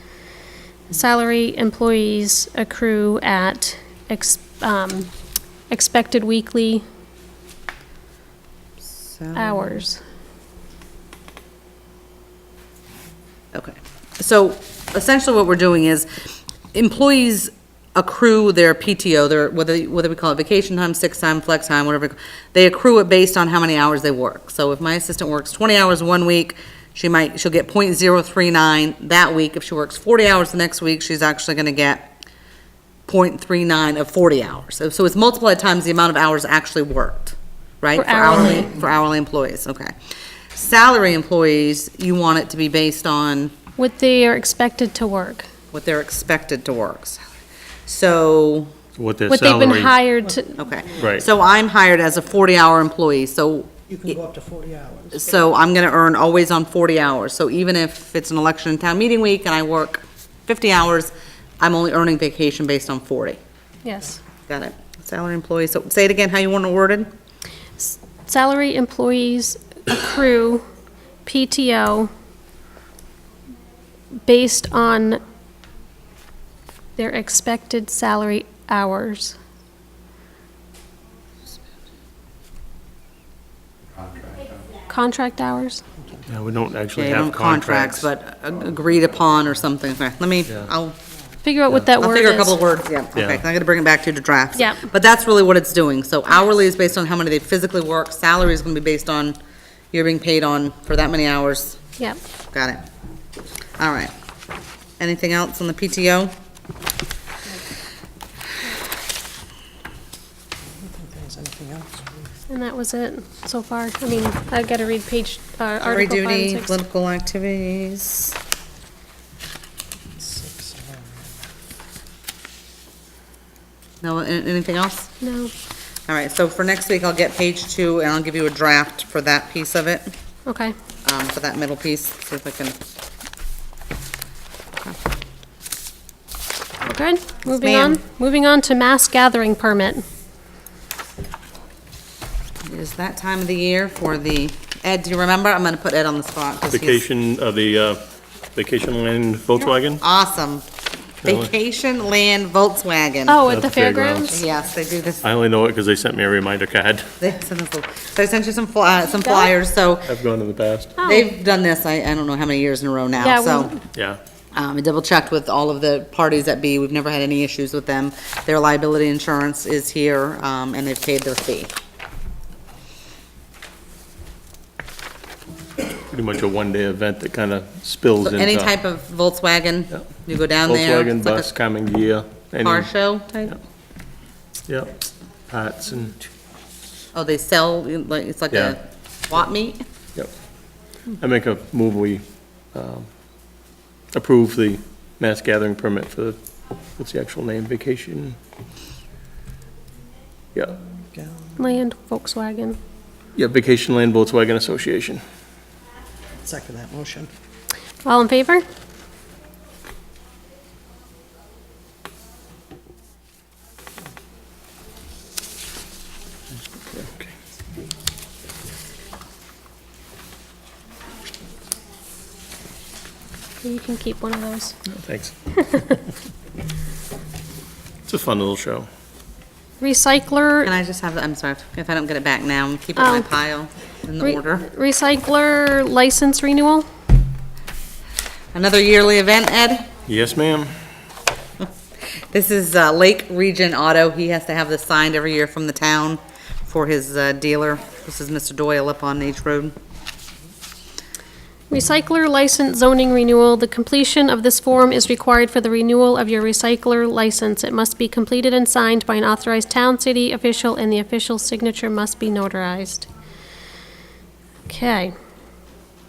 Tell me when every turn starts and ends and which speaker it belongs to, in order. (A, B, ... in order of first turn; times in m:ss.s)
0:00.9-0:05.1 A
0:05.7-0:06.8 A
0:08.8-0:09.8 B
0:09.3-0:10.0 A
0:13.5-0:16.1 B
0:16.7-0:32.1 B
0:33.1-0:39.9 B
0:37.9-0:38.8 A
0:40.5-0:43.5 B
0:43.8-0:45.5 A
0:45.7-0:47.2 B
0:47.9-0:48.7 B
0:49.0-0:50.0 C
0:49.3-0:50.5 A
0:50.6-0:53.9 B
0:51.0-0:51.2 C
0:53.9-0:55.2 D
0:55.2-1:03.4 B
1:03.8-1:04.2 A
1:04.5-1:07.1 B
1:07.8-1:10.6 A
1:11.2-1:12.1 A
1:14.2-1:15.2 A
1:17.0-1:19.4 A
1:24.9-1:25.8 A
1:26.3-1:28.1 C
1:26.9-1:31.0 B
1:31.4-1:32.6 A
1:32.0-1:39.4 B
1:33.1-1:33.4 C
1:34.6-1:34.8 A
1:39.9-1:41.8 B
1:42.5-1:42.8 B
1:43.8-1:44.1 B
1:45.0-1:46.3 B
1:50.8-1:52.2 D
1:52.5-1:56.7 A
1:55.8-1:58.4 B
2:00.2-2:01.2 D
2:04.0-2:05.1 B
2:05.2-2:05.5 A
2:06.1-2:10.1 B
2:10.4-2:10.7 A
2:11.0-2:12.8 B
2:16.8-2:20.0 A
2:17.5-2:18.0 B
2:22.7-2:27.0 B
2:26.7-2:28.0 C
2:28.5-2:30.0 C
2:30.0-2:30.6 B
2:31.2-2:33.4 B
2:31.2-2:31.5 C
2:33.3-2:34.4 A
2:33.4-2:34.4 C
2:34.3-2:35.2 B
2:35.2-2:37.1 C
2:37.2-2:40.1 B
2:40.1-2:41.0 C
2:41.0-2:43.7 B
2:41.0-2:41.2 A
2:43.2-2:43.8 A
2:43.9-2:44.2 C
2:44.5-2:51.7 B
2:56.1-2:58.7 C
2:58.2-3:01.5 B
3:00.6-3:02.9 C
3:02.6-3:03.5 B
3:04.7-3:05.0 C
3:05.5-3:06.2 C
3:07.1-3:09.8 B
3:11.2-3:13.1 C
3:14.1-3:16.4 C
3:17.0-3:18.4 C
3:21.1-3:21.5 D
3:21.6-3:22.8 A
3:23.4-3:25.2 C
3:26.4-3:27.3 D
3:28.0-3:28.6 A
3:36.7-3:37.3 C
3:43.6-3:44.7 A
3:44.9-3:46.0 C
3:48.1-3:48.9 C
3:49.8-3:50.7 A
3:50.6-3:54.7 B
3:53.0-3:53.3 A
3:54.2-3:56.9 A
3:58.5-3:59.9 B
4:00.1-4:00.7 C
4:02.3-4:09.7 B
4:11.7-4:23.1 A
4:24.7-4:25.1 A